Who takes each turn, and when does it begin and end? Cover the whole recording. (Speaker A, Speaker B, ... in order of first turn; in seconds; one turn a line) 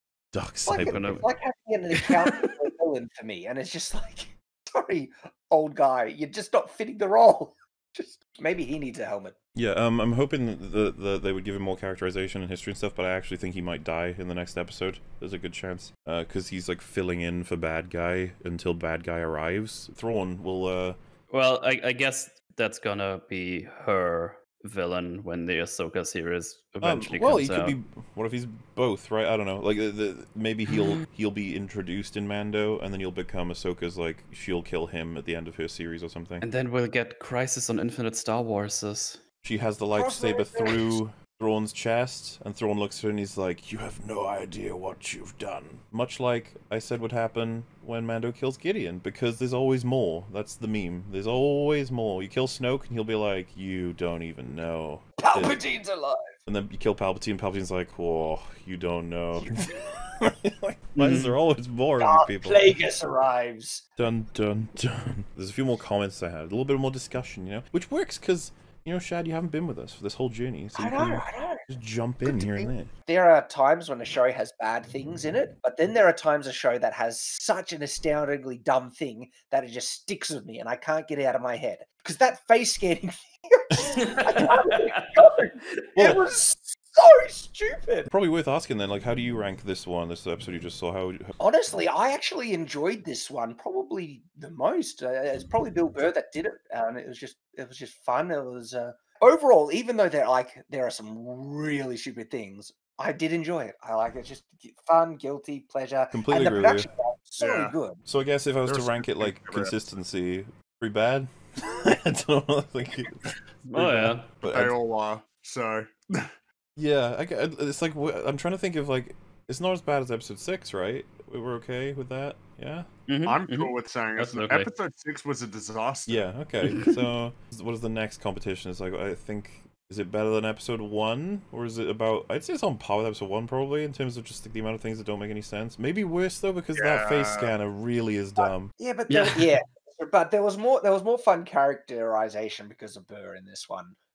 Speaker A: 0.3-1.2
Speaker B: 0.7-9.3
Speaker C: 0.8-1.2
Speaker C: 2.0-2.5
Speaker A: 9.6-21.0
Speaker C: 21.3-27.8
Speaker A: 26.8-36.5
Speaker C: 30.7-31.0
Speaker C: 36.4-39.2
Speaker A: 39.4-55.6
Speaker B: 40.0-40.9
Speaker B: 55.2-56.3
Speaker A: 56.5-62.8
Speaker C: 61.0-61.4
Speaker B: 62.0-63.8
Speaker A: 64.0-72.9
Speaker B: 70.8-71.7
Speaker B: 72.3-88.1
Speaker C: 83.9-85.2
Speaker A: 86.0-86.2
Speaker A: 88.1-91.3
Speaker B: 91.4-108.0
Speaker A: 106.1-106.9
Speaker D: 107.4-107.8
Speaker A: 108.1-114.8
Speaker D: 108.7-109.8
Speaker C: 113.7-114.4
Speaker D: 114.4-116.3
Speaker A: 116.8-122.9
Speaker C: 123.1-124.7
Speaker D: 123.2-126.3
Speaker A: 126.1-138.7
Speaker D: 136.8-137.5
Speaker B: 138.8-144.0
Speaker C: 139.1-139.5